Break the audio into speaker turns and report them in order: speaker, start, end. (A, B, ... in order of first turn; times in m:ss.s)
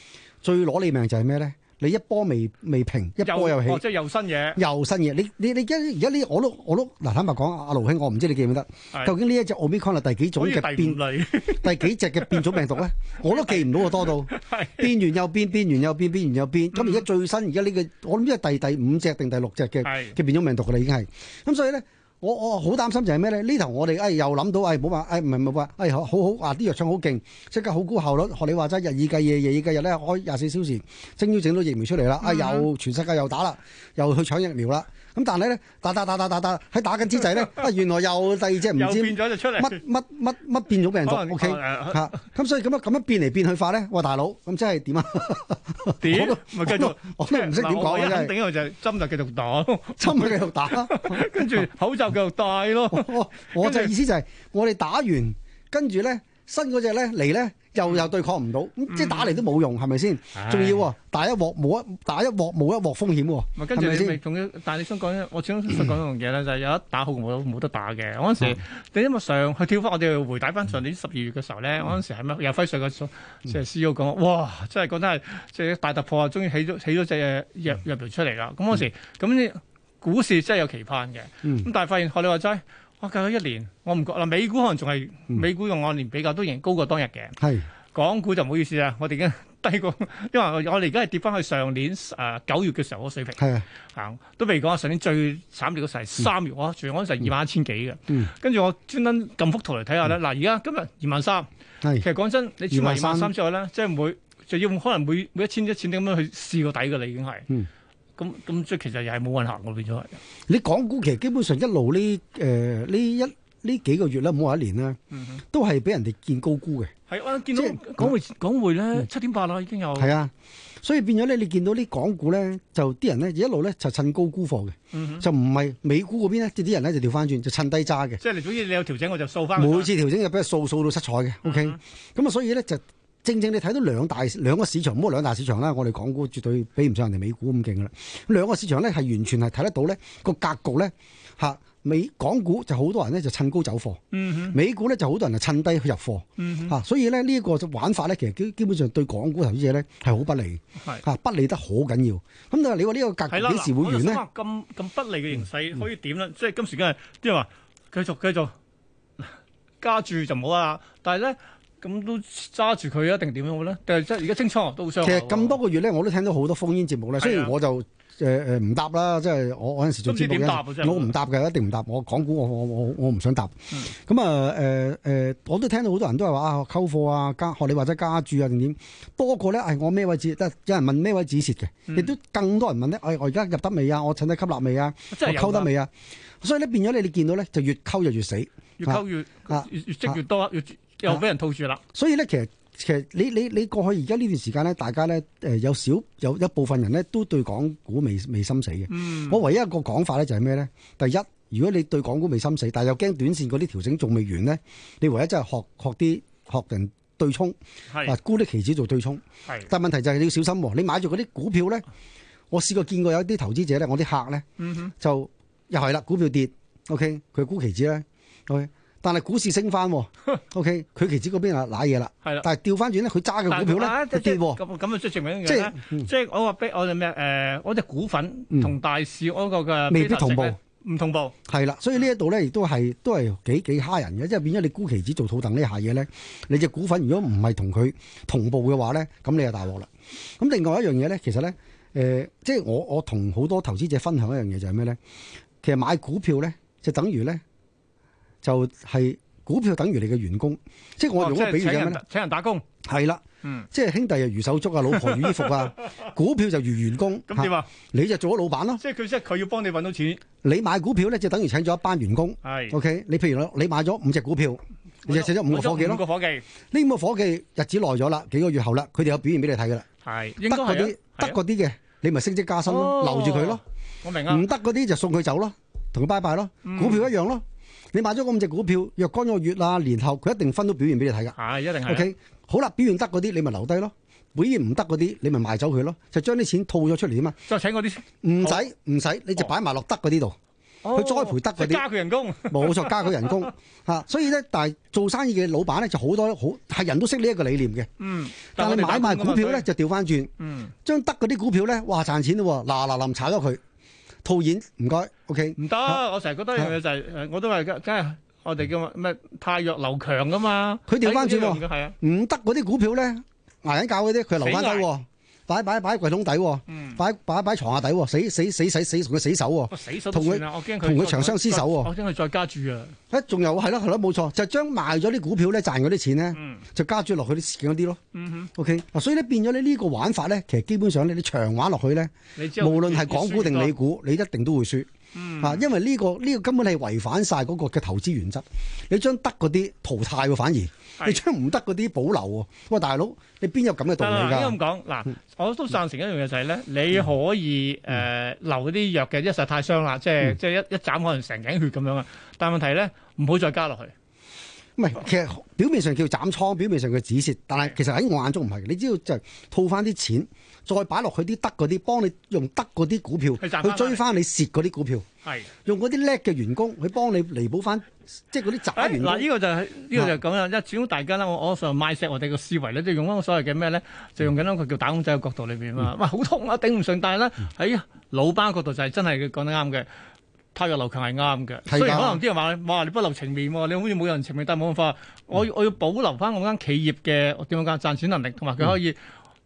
0:00.4-0:03.8 A
0:03.2-0:04.6 B
0:04.5-0:48.3 A
0:10.4-0:14.9 B
0:16.7-0:17.0 B
0:19.8-0:20.2 B
0:32.2-0:32.7 B
0:38.7-0:39.8 B
0:41.0-0:42.2 B
0:46.0-0:53.9 B
0:50.0-0:51.7 A
0:52.9-1:04.2 A
0:58.9-0:59.4 B
1:00.3-1:00.9 B
1:03.6-1:27.4 B
1:27.4-1:27.7 A
1:27.9-1:41.5 B
1:33.4-1:33.6 A
1:42.0-1:47.5 B
1:42.7-1:43.3 A
1:48.2-1:50.2 B
1:50.5-1:55.0 A
1:55.1-1:55.4 B
1:55.5-1:56.9 A
1:57.1-2:00.1 B
1:57.5-1:58.2 A
1:59.9-2:00.3 A
2:00.8-2:08.2 A
2:04.9-2:05.2 B
2:08.2-2:09.9 B
2:09.6-2:34.2 A
2:11.4-2:11.8 B
2:24.1-2:24.6 B
2:26.4-2:26.8 B
2:33.3-2:38.5 B
2:39.2-2:45.6 B
2:45.0-3:05.9 A
2:47.2-2:47.5 B
2:50.0-2:51.1 B
3:05.1-3:05.7 B
3:06.4-3:10.2 A
3:08.8-3:11.8 B
3:11.9-3:31.8 A
3:18.9-3:19.4 B
3:27.9-3:28.2 B
3:32.5-3:34.4 A
3:34.6-3:34.9 B
3:35.0-3:44.6 A
3:43.5-3:51.3 B
3:45.4-3:46.1 A
3:49.9-3:50.6 A
3:51.5-4:05.0 A
4:05.6-4:07.4 A
4:08.4-4:12.0 A
4:11.1-4:12.6 B
4:12.8-4:18.8 A
4:13.4-4:13.7 B
4:14.9-4:15.9 B
4:17.3-4:17.7 B
4:18.8-4:20.2 B
4:20.4-4:26.0 A
4:22.4-4:22.8 B
4:25.0-4:26.4 B
4:26.7-4:29.8 A
4:30.0-4:31.4 B
4:30.4-4:33.6 A
4:32.6-4:34.5 B
4:34.3-4:37.4 A
4:36.6-4:37.1 B
4:37.9-4:47.4 A
4:41.3-4:42.1 B
4:47.4-4:48.6 B
4:48.2-4:50.4 A
4:50.8-4:53.5 B
4:50.9-4:51.8 A
4:52.5-4:57.9 A
4:58.0-4:59.7 B
4:58.6-5:00.3 A
5:00.4-5:00.7 B
5:00.8-5:03.6 A
5:04.2-5:06.0 A
5:05.6-5:12.0 B
5:10.9-5:21.9 A
5:14.4-5:14.9 B
5:16.7-5:17.0 B
5:19.7-5:22.9 B
5:23.1-5:28.0 A
5:26.3-5:26.6 B
5:28.1-5:28.5 B
5:28.6-5:34.9 A
5:32.4-5:33.8 B
5:35.1-5:35.6 B
5:35.4-5:44.6 A
5:44.0-5:53.9 B
5:54.8-6:05.0 A
6:03.4-6:04.0 B
6:05.6-6:09.3 A
6:08.7-6:19.9 B
6:20.5-6:29.0 B
6:21.7-6:22.2 A